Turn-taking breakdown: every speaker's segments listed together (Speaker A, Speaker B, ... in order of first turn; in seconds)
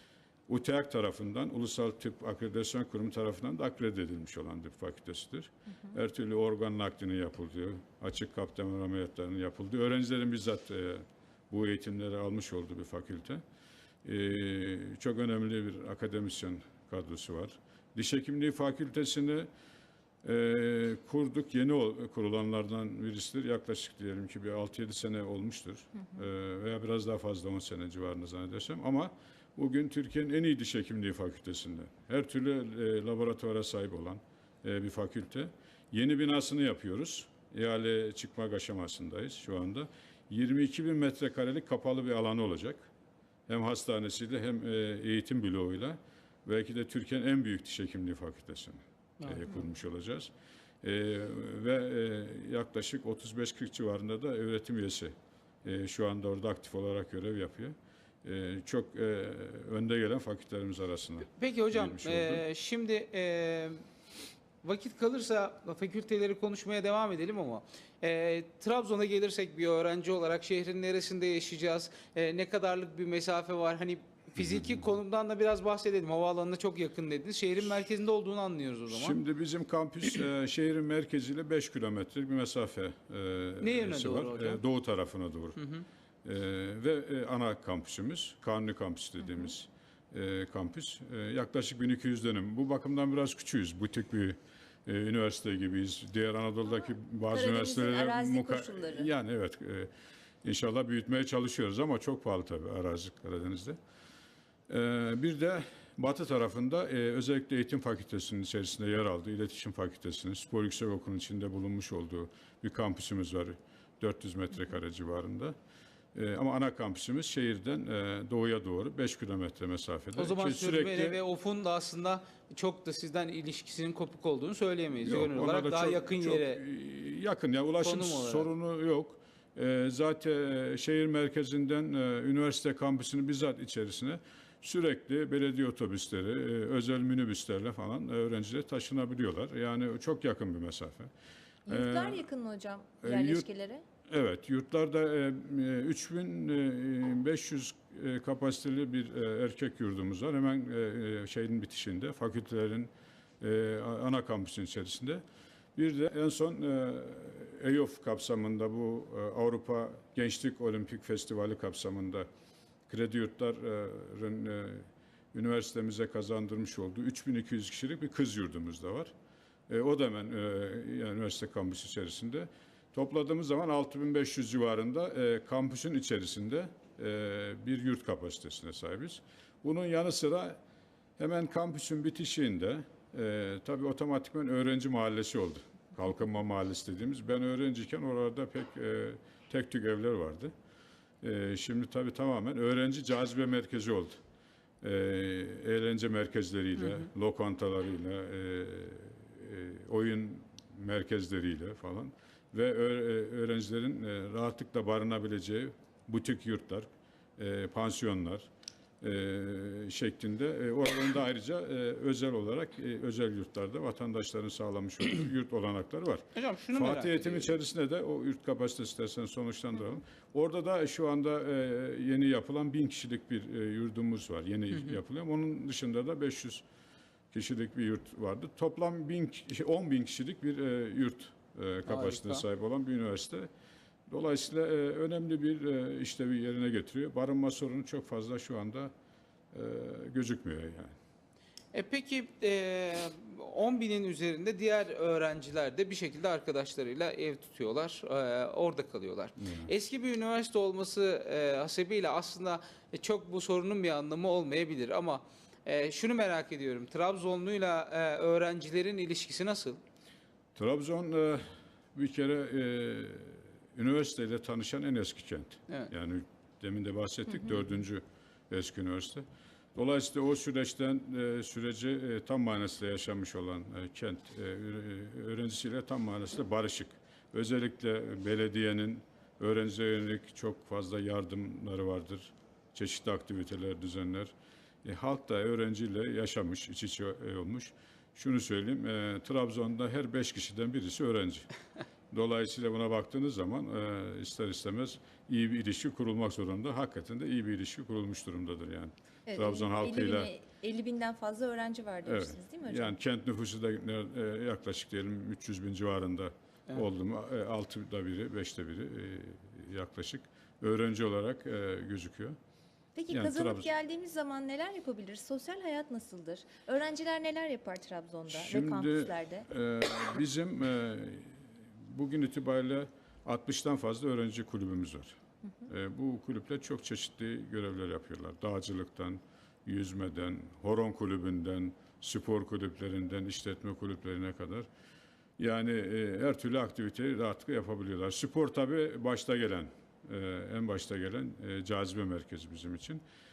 Speaker A: 0.5-13.4, 14.0-19.5, 20.2-42.9, 43.5-50.3, 50.8-62.4, 74.4-74.7, 78.9-85.6, 86.2-99.9, 100.4-103.8, 104.7-115.5, 116.2-121.2, 125.0-141.1, 141.7-142.2, 143.0-143.5, 144.1-152.9, 153.4-155.2, 155.8-162.3, 162.9-169.1, 169.7-180.6, 181.2-190.5, 191.2-194.2, 194.8-208.5, 209.0-226.6, 227.3-233.5, 234.1-238.9, 239.5-240.9, 249.4-249.7, 260.6-284.3, 284.8-291.5, 292.1-300.3, 302.1-312.4, 313.1-313.7, 318.3-325.2, 325.7-334.7, 335.4-343.0
Speaker B: 49.2-49.5, 61.3-63.9, 64.6-79.2, 83.6-84.6, 85.6-85.9, 120.2-126.6, 127.8-128.5, 216.3-217.6, 231.9-232.4, 241.7-259.8
Speaker C: 97.3-99.1, 141.7-143.8, 299.3-303.0, 313.0-319.5